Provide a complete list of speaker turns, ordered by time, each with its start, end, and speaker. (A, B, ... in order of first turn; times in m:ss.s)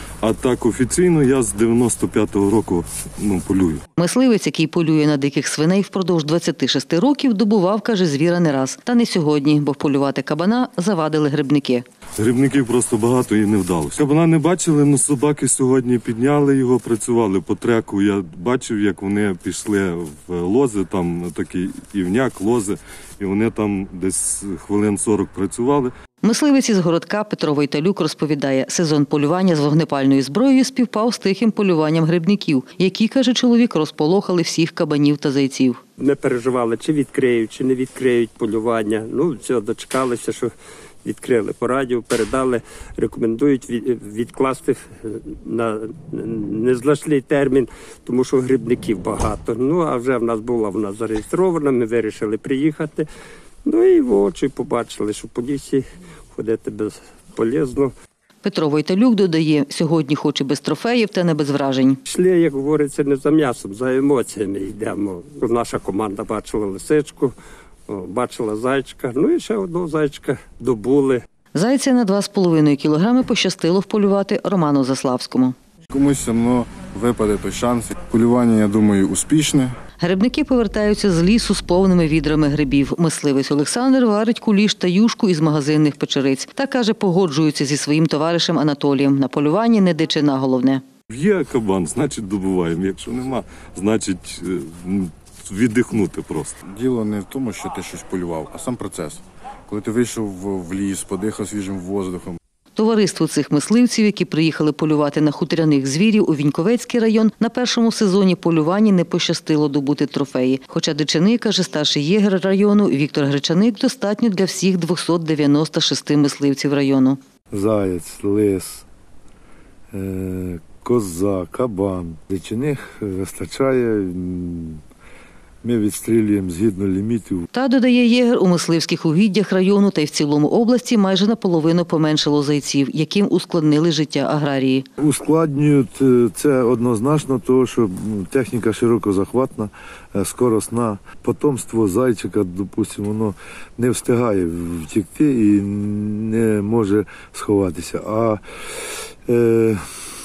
0:00.2-0:03.8 A
0:04.0-0:11.8 B
0:12.2-0:25.9 A
0:26.2-0:35.8 B
0:36.0-0:40.5 C
0:41.0-0:53.1 C
0:53.6-0:57.9 C
0:58.4-1:02.0 B
1:02.0-1:07.4 C
1:07.9-1:11.2 C
1:11.6-1:15.6 B
1:15.9-1:19.8 D
1:20.0-1:30.8 B
1:31.1-1:36.6 A
1:36.6-1:42.4 D
1:42.8-1:57.2 B
1:57.5-1:58.9 E
1:59.9-2:04.8 E
2:05.6-2:07.5 E
2:07.5-2:14.9 B
2:15.0-2:28.4 E
2:29.3-2:29.8 E